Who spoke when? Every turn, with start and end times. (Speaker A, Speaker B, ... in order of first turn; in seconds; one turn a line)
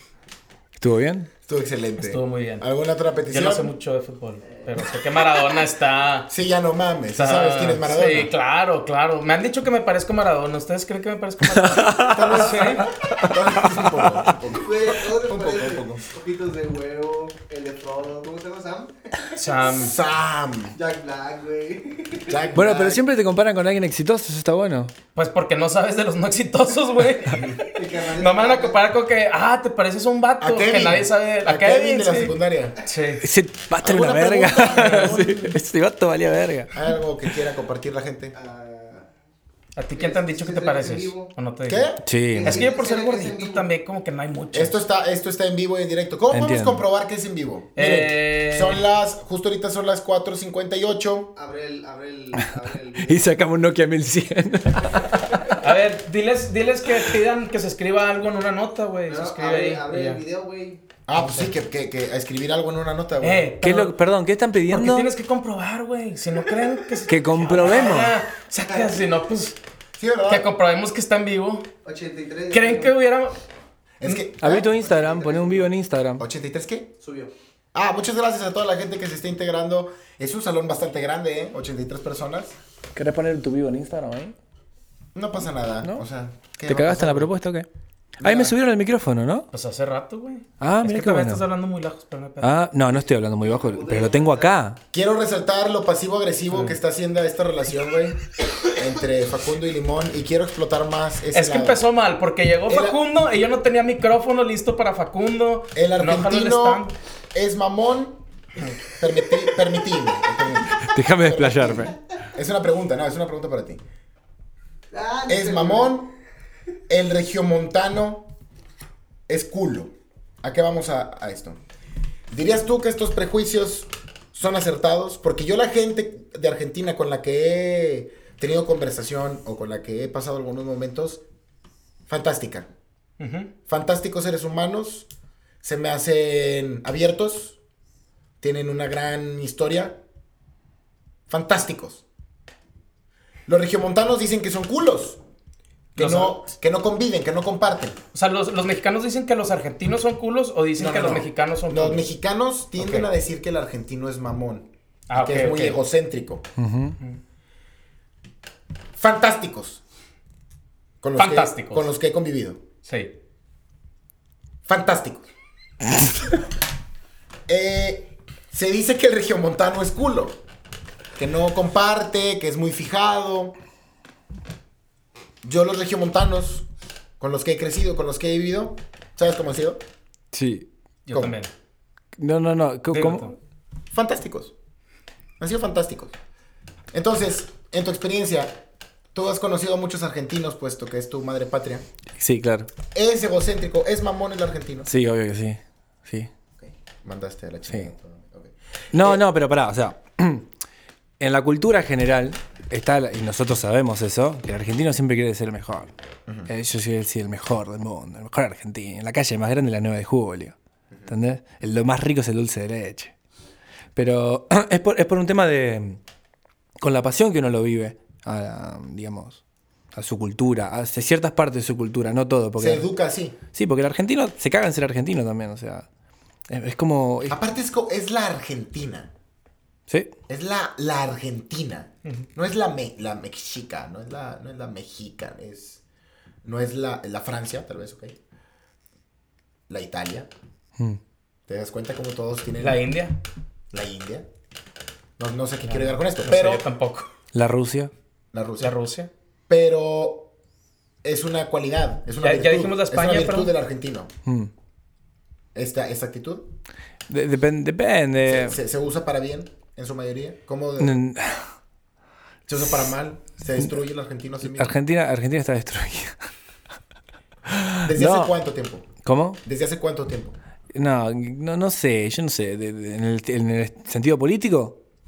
Speaker A: 0.8-1.3
Speaker B: 1.5-3.7
Speaker C: 2.0-2.6
Speaker C: 3.3-6.3
Speaker B: 6.3-8.3
Speaker C: 7.2-12.9
Speaker A: 11.4-14.2
Speaker B: 12.1-16.1
Speaker D: 14.4-19.4
Speaker C: 19.4-19.9
Speaker B: 19.6-20.8
Speaker D: 20.8-22.7
Speaker B: 22.3-23.0
Speaker A: 22.6-24.9
Speaker C: 25.2-32.3
Speaker B: 27.3-27.6
Speaker D: 27.6-28.8
Speaker B: 30.4-32.8
Speaker C: 32.9-33.3
Speaker A: 33.2-36.7
Speaker B: 33.8-35.6
Speaker B: 36.7-38.4
Speaker D: 38.3-39.1
Speaker C: 39.8-41.9
Speaker D: 40.0-41.3
Speaker B: 41.7-42.0
Speaker A: 42.0-42.7
Speaker D: 42.3-43.7
Speaker C: 42.4-44.8
Speaker B: 44.5-51.3
Speaker A: 46.3-46.8
Speaker C: 47.8-48.8
Speaker D: 51.4-53.3
Speaker A: 52.4-55.7
Speaker C: 55.6-60.2
Speaker D: 59.1-60.8
Speaker B: 61.1-63.5
Speaker C: 61.1-61.5
Speaker C: 63.2-63.9
Speaker A: 63.6-65.1
Speaker C: 64.7-69.6
Speaker A: 67.1-68.2
Speaker B: 70.0-70.5
Speaker C: 70.3-71.7
Speaker D: 71.8-72.9
Speaker C: 72.5-73.4
Speaker B: 74.0-74.7
Speaker A: 74.4-76.2
Speaker D: 74.7-75.7
Speaker B: 76.2-76.9
Speaker D: 77.0-77.3
Speaker B: 77.7-82.6
Speaker A: 83.0-84.4
Speaker B: 85.2-87.3
Speaker A: 86.7-87.7
Speaker A: 88.2-89.5
Speaker B: 88.2-88.5
Speaker C: 89.5-92.5
Speaker A: 90.6-91.5
Speaker A: 92.4-94.8
Speaker D: 93.4-94.5
Speaker B: 94.9-101.8
Speaker C: 96.5-96.8
Speaker C: 101.3-106.9
Speaker B: 102.7-103.0
Speaker B: 105.7-106.8
Speaker B: 107.3-108.2
Speaker B: 108.9-113.8
Speaker A: 110.7-112.0
Speaker D: 114.9-116.0
Speaker B: 115.3-116.1
Speaker B: 116.9-118.3
Speaker B: 119.3-121.6
Speaker B: 122.3-131.2
Speaker B: 132.1-132.7
Speaker C: 133.2-133.5
Speaker B: 133.7-135.1
Speaker B: 135.6-137.6
Speaker B: 138.4-140.0
Speaker B: 141.3-142.0
Speaker B: 143.5-145.2
Speaker B: 145.9-148.0
Speaker C: 146.0-146.4
Speaker C: 148.1-152.0
Speaker B: 150.8-156.4
Speaker C: 152.8-153.1
Speaker C: 155.1-155.8
Speaker A: 156.6-157.0
Speaker B: 159.0-159.8
Speaker B: 161.0-162.6
Speaker C: 161.2-161.9
Speaker C: 162.9-163.1
Speaker B: 164.7-165.3
Speaker B: 167.5-170.4
Speaker B: 171.2-173.6
Speaker B: 175.4-176.7
Speaker B: 177.2-179.8
Speaker A: 180.3-180.7
Speaker C: 181.1-181.5
Speaker B: 181.1-181.4
Speaker A: 182.2-183.3
Speaker C: 182.9-183.3
Speaker B: 183.9-184.5
Speaker B: 185.4-186.1
Speaker B: 186.9-188.6
Speaker B: 189.1-191.8
Speaker A: 192.2-192.7
Speaker B: 192.9-194.9
Speaker A: 194.9-196.3
Speaker B: 196.6-199.2
Speaker A: 198.9-200.5
Speaker A: 201.2-205.9
Speaker A: 206.5-210.6
Speaker A: 211.1-213.1
Speaker A: 213.9-216.0
Speaker A: 216.8-219.4
Speaker A: 219.9-222.9
Speaker B: 222.6-223.4
Speaker A: 223.5-225.9
Speaker A: 226.5-227.4
Speaker B: 227.3-229.1
Speaker B: 230.3-235.8
Speaker B: 236.4-238.2
Speaker B: 239.7-240.3
Speaker B: 241.5-242.8
Speaker C: 242.6-243.2
Speaker B: 243.7-244.3
Speaker B: 245.2-246.7
Speaker C: 245.7-247.1
Speaker A: 247.3-247.9
Speaker B: 248.3-248.7
Speaker C: 248.6-249.1
Speaker B: 249.5-250.3
Speaker B: 251.0-254.1
Speaker C: 252.2-253.5
Speaker A: 254.3-254.5
Speaker B: 255.6-256.5
Speaker A: 257.1-258.6
Speaker B: 258.2-261.0
Speaker A: 260.8-261.5
Speaker B: 262.5-264.8
Speaker A: 264.4-266.3
Speaker A: 267.5-268.4
Speaker B: 267.8-268.9
Speaker A: 269.0-269.4
Speaker B: 269.4-270.4
Speaker A: 270.7-274.8